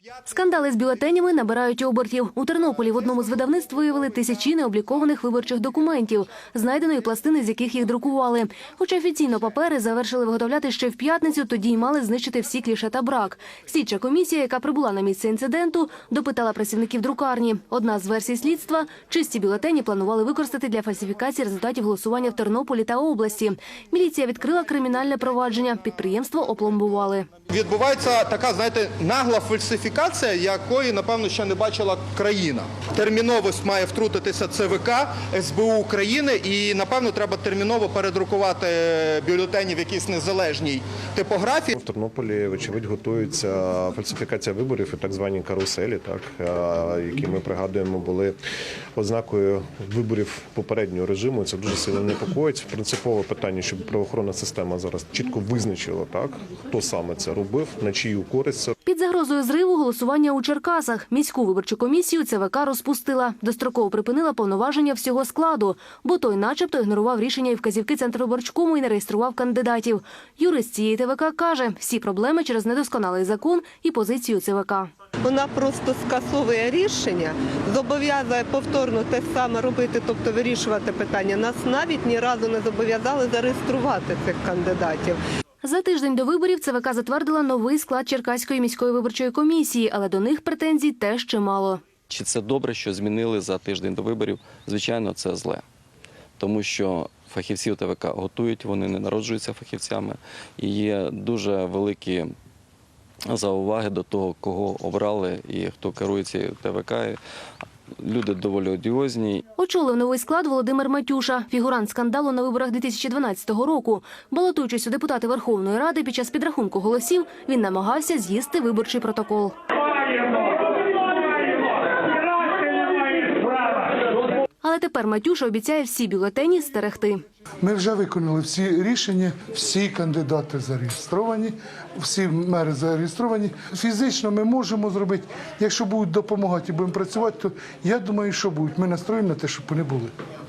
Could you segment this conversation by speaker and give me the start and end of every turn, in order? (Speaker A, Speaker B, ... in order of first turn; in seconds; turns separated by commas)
Speaker A: 0.2-27.3, Speaker B: 27.5-41.8, Speaker C: 41.8-48.4, Speaker C: 49.0-58.7, Speaker A: 58.9-74.9, Speaker D: 75.2-85.2, Speaker A: 85.6-91.8, Speaker E: 92.1-95.6, Speaker E: 96.4-102.3, Speaker E: 103.3-107.2, Speaker E: 108.0-109.4, Speaker A: 109.6-119.5, Speaker A: 124.6-127.2, Speaker F: 127.6-140.1